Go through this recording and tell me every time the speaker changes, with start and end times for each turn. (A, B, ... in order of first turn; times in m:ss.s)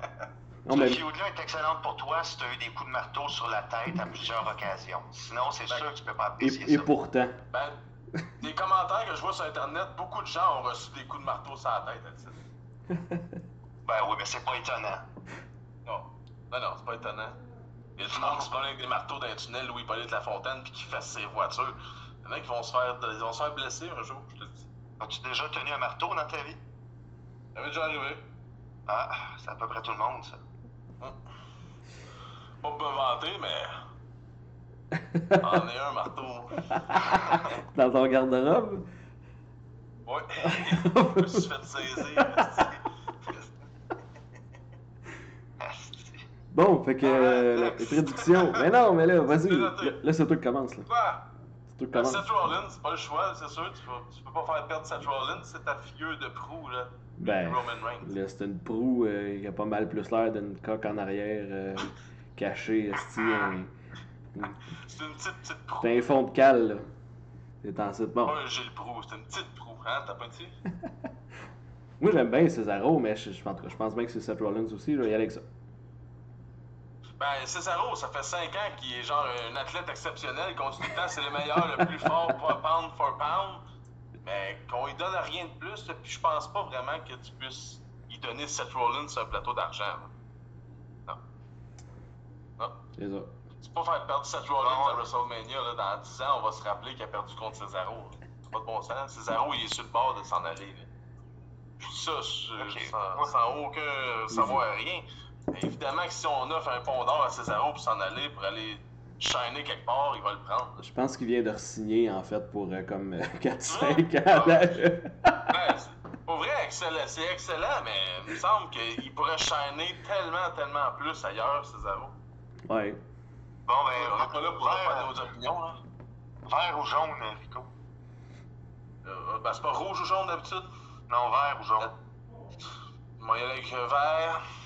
0:00.7-0:01.0 A
0:00.7-0:06.9 B
0:06.4-0:07.4 A
0:07.5-0:07.8 C
0:08.4-0:12.4 C
0:13.8-0:15.0 B
0:15.8-0:17.4 C
0:18.0-0:24.6 C
0:18.0-0:18.5 B
0:25.0-0:26.6 B
0:27.6-0:28.2 C
0:28.9-0:30.4 B
0:32.6-0:33.8 C
0:35.0-0:35.4 A
0:35.4-0:37.0 C
0:37.0-0:38.9 A
0:40.1-0:42.8 C
0:40.4-0:41.5 A
0:42.1-0:42.7 A
0:45.6-0:46.2 B
0:46.5-0:50.9 A
0:47.0-0:48.7 C
0:49.3-0:50.0 C
0:50.9-0:51.2 C
0:51.8-0:52.2 A
0:51.9-0:58.1 C
0:57.2-1:03.7 A
1:04.8-1:06.0 C
1:05.8-1:06.9 A
1:07.6-1:08.4 A
1:08.2-1:10.6 C
1:12.0-1:15.4 A
1:17.2-1:23.6 C
1:24.2-1:30.1 C
1:33.0-1:33.3 A
1:33.6-1:40.9 C
1:34.6-1:35.1 B
1:41.8-1:50.8 C
1:42.6-1:43.3 B
1:44.3-1:44.6 A
1:50.8-1:55.5 A
1:53.7-1:54.8 C
1:55.5-2:02.1 C
2:02.7-2:03.0 A
2:03.7-2:05.1 B
2:03.9-2:05.8 C
2:06.5-2:07.7 B
2:09.0-2:10.7 C
2:11.1-2:11.9 B
2:13.2-2:14.4 C